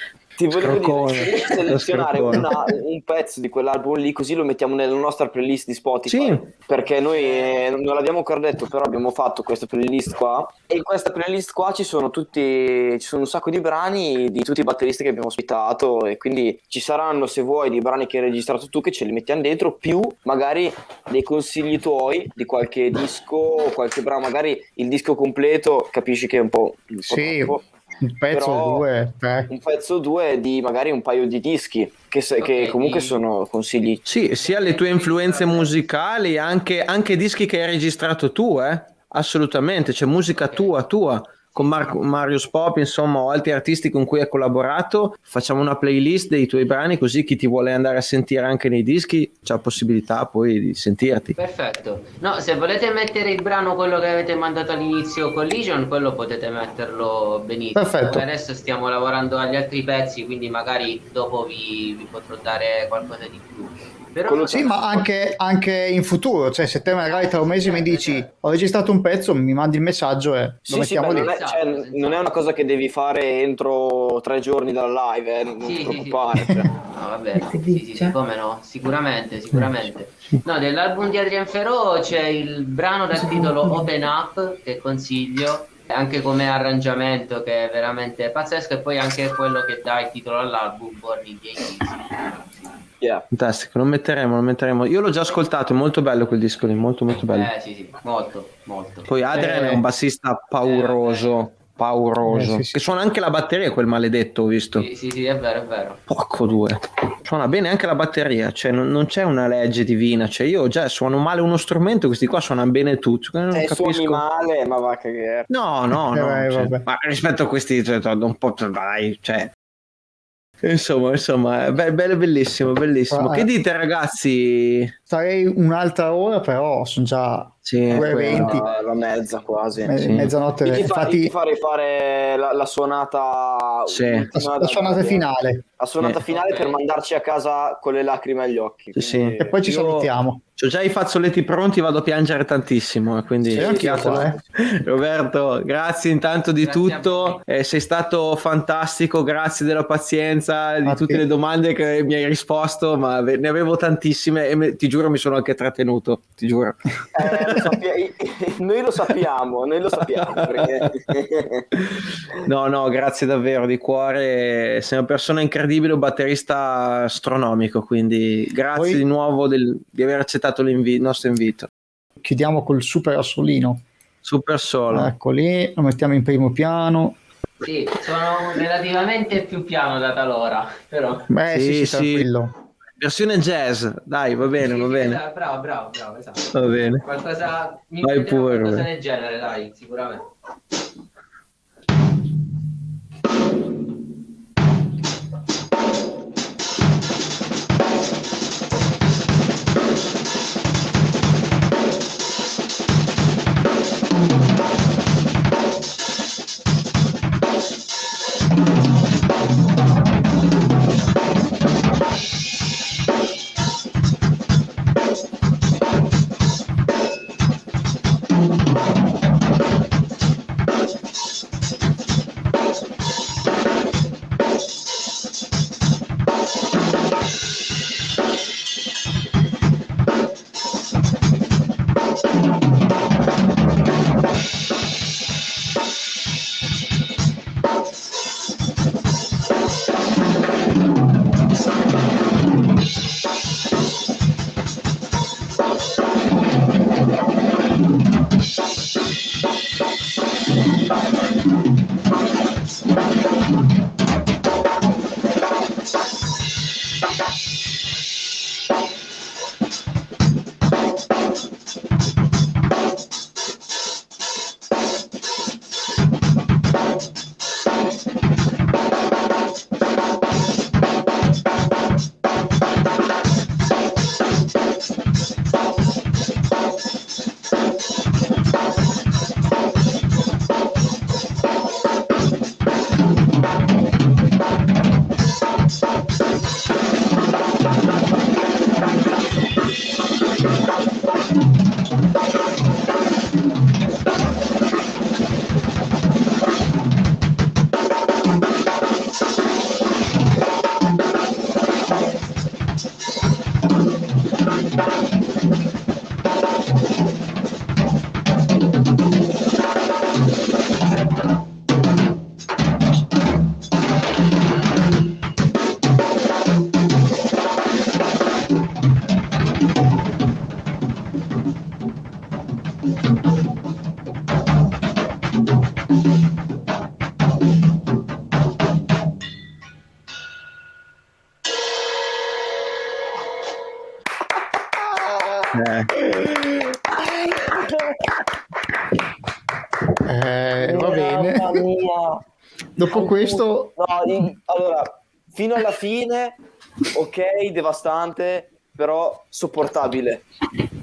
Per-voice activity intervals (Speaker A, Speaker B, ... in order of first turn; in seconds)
Speaker A: 0.4-27.6, 28.3-28.9, 29.5-34.0, 64.3-64.8, 70.7-76.7, 93.0-93.3, 113.5-115.5, 127.9-129.9, 130.6-135.3, 135.8-139.6, 143.4-144.4, 157.2-161.7, 334.8-338.1, 340.6-342.2, 342.9-346.4, 346.9-350.2
Speaker B: 0.5-2.7, 6.1-6.4, 34.0-51.4, 79.5-80.4, 93.3-97.5, 99.1-104.9, 106.1-114.2, 115.5-119.5, 120.6-124.9, 127.7-128.6, 129.9-130.3, 133.9-134.3, 138.9-157.8, 160.2-160.9, 161.8-171.7, 174.2-175.1, 181.5-182.3, 183.0-185.2, 186.5-187.0, 188.0-188.9, 335.5-335.9
Speaker C: 7.1-7.5, 32.4-33.2, 34.4-35.9, 40.3-40.8, 51.4-65.1, 67.0-68.3, 71.0-72.4, 75.6-92.7, 97.3-99.1, 100.6-101.3, 104.8-106.0, 128.5-129.5, 136.3-136.8, 146.6-147.4, 177.6-181.3, 184.6-190.3
Speaker D: 27.1-29.5, 57.8-58.2, 64.5-71.4, 99.3-99.8, 102.2-102.8, 115.9-116.8, 123.1-123.5, 125.1-128.6, 129.8-131.3, 134.3-135.6, 139.4-140.4, 143.5-144.4, 150.8-151.2, 168.8-169.0, 172.2-173.8, 174.9-177.2, 181.3-182.5, 340.1-341.6, 342.8-343.8